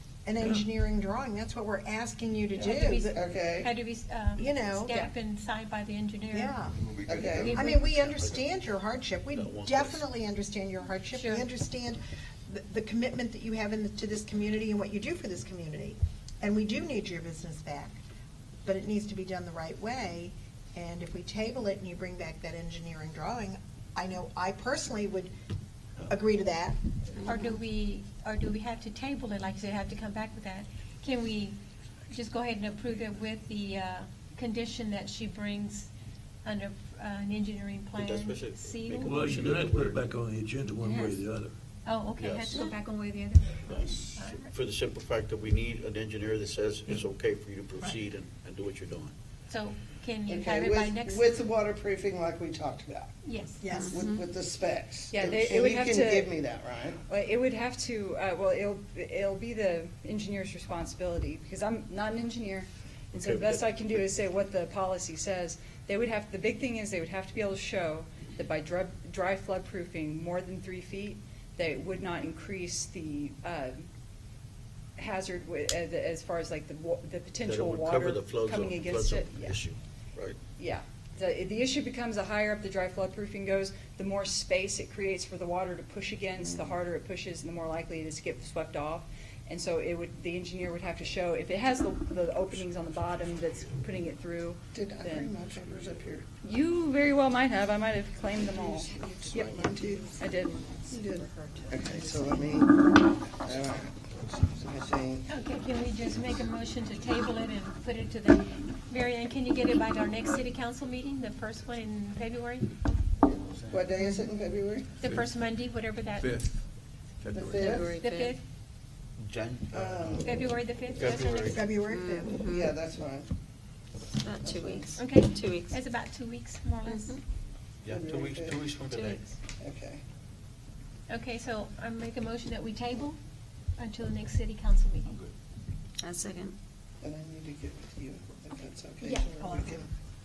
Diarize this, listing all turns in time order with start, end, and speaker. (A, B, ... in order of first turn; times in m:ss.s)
0:00.2-0:03.2 A
0:02.6-0:03.7 B
0:02.6-0:06.6 C
0:04.4-0:05.0 A
0:06.3-0:06.8 A
0:07.0-0:07.6 B
0:07.2-0:07.9 C
0:07.4-0:18.0 A
0:08.0-0:08.4 D
0:09.3-0:10.1 D
0:11.1-0:11.5 C
0:18.6-0:25.3 A
0:26.1-0:26.8 A
0:27.2-0:31.6 C
0:32.1-0:35.9 C
0:36.4-0:39.2 C
0:38.0-0:40.1 D
0:39.0-0:41.5 E
0:40.8-0:41.2 F
0:41.8-0:44.5 C
0:42.2-0:42.6 D
0:43.6-0:49.1 D
0:49.5-0:51.3 C
0:50.3-0:53.2 B
0:53.2-0:53.6 C
0:53.6-0:54.0 A
0:53.7-0:54.2 F
0:53.9-0:57.0 B
0:55.1-0:56.4 G
0:57.1-1:13.9 G
1:03.1-1:03.6 D
1:15.0-1:19.6 G
1:17.4-1:20.4 D
1:20.6-1:35.4 G
1:34.7-1:36.3 B
1:36.4-1:39.6 G
1:38.6-1:40.1 B
1:39.0-1:42.6 A
1:40.2-1:40.6 G
1:40.9-1:45.3 B
1:45.3-1:52.8 C
1:53.5-1:53.9 D
1:53.7-1:55.0 B
1:55.0-1:56.6 C
1:57.3-1:57.8 D
1:57.3-1:58.0 B
1:57.6-1:58.3 F
1:57.6-1:58.4 C
1:59.2-2:01.7 D
1:59.7-2:00.3 B
2:00.2-2:01.8 C
2:01.5-2:02.4 A
2:01.8-2:02.8 F
2:02.4-2:03.3 B
2:04.1-2:05.8 F
2:04.4-2:05.0 B
2:05.0-2:07.2 C
2:06.9-2:07.2 F
2:07.8-2:09.3 D
2:07.9-2:08.7 B
2:08.9-2:09.2 F
2:09.6-2:10.0 B
2:11.1-2:13.2 C
2:13.8-2:15.2 C
2:16.0-2:16.6 F
2:17.0-2:19.9 B
2:19.0-2:19.7 C